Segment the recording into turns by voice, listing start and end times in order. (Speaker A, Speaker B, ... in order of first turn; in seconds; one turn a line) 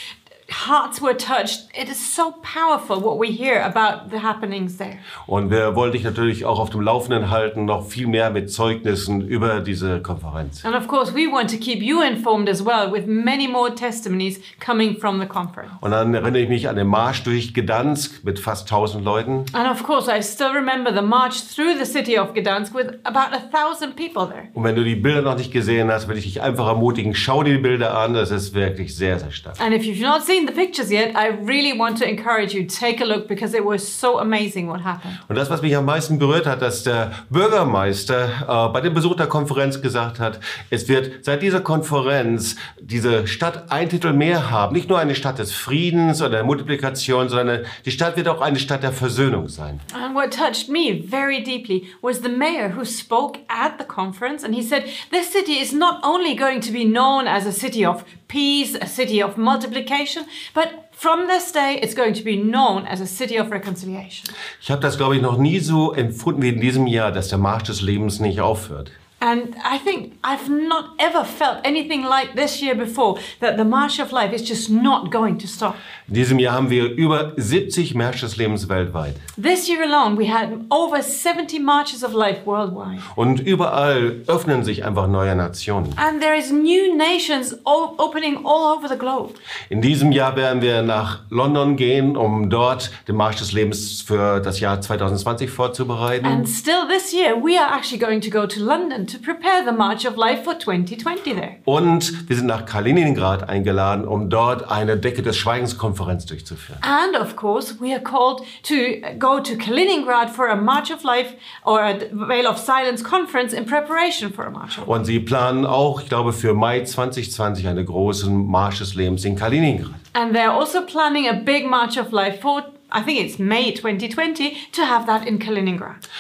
Speaker A: 0.5-5.0
Speaker B: 5.3-10.6
Speaker A: 10.6-15.8
Speaker B: 15.8-19.5
Speaker A: 19.5-24.5
Speaker B: 24.6-29.6
Speaker A: 29.6-35.2
Speaker B: 35.3-49.8
Speaker A: 49.9-64.3
Speaker B: 64.6-68.9
Speaker A: 69.2-75.8
Speaker B: 76.1-79.2
Speaker A: 79.4-83.1
Speaker B: 83.1-86.0
Speaker A: 86.0-89.4
Speaker B: 89.7-96.5
Speaker A: 96.2-101.6
Speaker B: 101.7-106.8
Speaker A: 106.8-115.0
Speaker B: 114.9-120.0
Speaker A: 120.1-126.0